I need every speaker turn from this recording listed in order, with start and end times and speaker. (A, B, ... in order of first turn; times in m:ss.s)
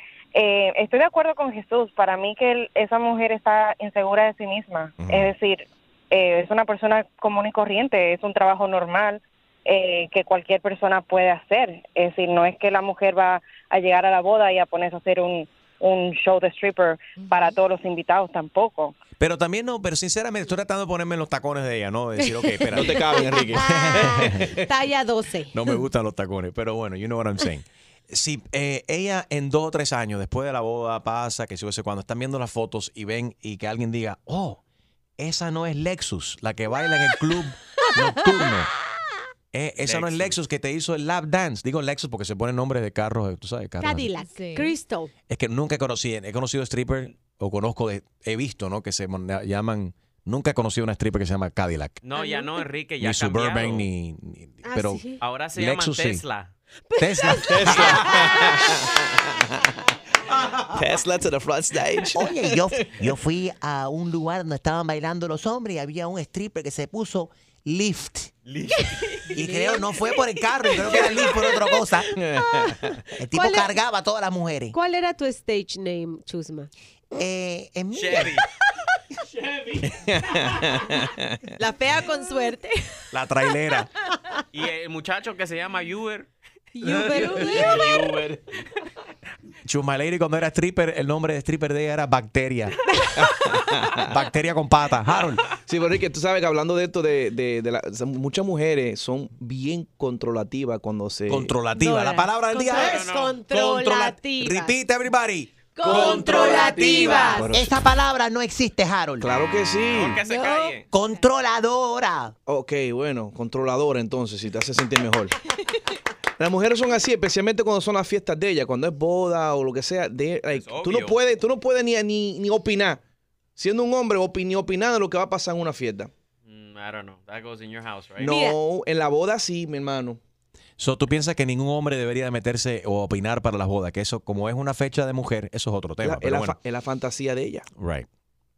0:00.3-0:18.9 A
0:05.0-0:05.3 B
0:19.2-0:24.5 B
0:22.7-0:24.3 C
0:23.6-0:25.8 D
0:25.5-0:34.6 B
0:35.2-0:38.7 B
0:39.5-0:44.1 B
0:39.8-0:40.4 E
0:43.8-0:45.1 D
0:44.2-0:44.7 F
0:45.3-0:52.0 B
0:52.0-0:53.9 E
0:53.0-0:56.2 B
0:54.6-0:55.2 D
0:55.2-0:56.5 E
0:57.0-0:58.1 B
0:57.5-0:58.0 E
1:00.7-1:02.2 C
1:02.1-1:08.3 G
1:09.3-1:12.1 G
1:09.4-1:09.8 D
1:13.2-1:14.8 G
1:13.3-1:13.7 D
1:14.7-1:16.7 D
1:17.1-1:18.4 G
1:17.9-1:18.4 E
1:21.6-1:22.8 F
1:23.1-1:23.9 B
1:24.5-1:26.3 E
1:26.8-1:28.2 F
1:26.8-1:27.8 D
1:26.9-1:28.4 E
1:29.6-1:32.7 B
1:34.1-1:35.4 B
1:35.6-1:41.6 C
1:41.3-1:47.4 B
1:41.8-1:44.8 D
1:42.7-1:43.4 E
1:45.8-1:47.3 F
1:45.8-1:47.4 D
1:46.4-1:47.7 C
1:47.5-1:49.4 G
1:49.2-1:50.2 C
1:49.9-1:50.9 E
1:50.9-1:52.3 G
1:52.5-1:55.3 C
1:56.4-2:03.0 C
2:00.5-2:01.2 E
2:03.6-2:06.1 C
2:06.4-2:08.4 E
2:08.2-2:10.2 C
2:08.2-2:08.6 D
2:10.8-2:16.6 B
2:16.0-2:17.6 C
2:17.8-2:18.0 B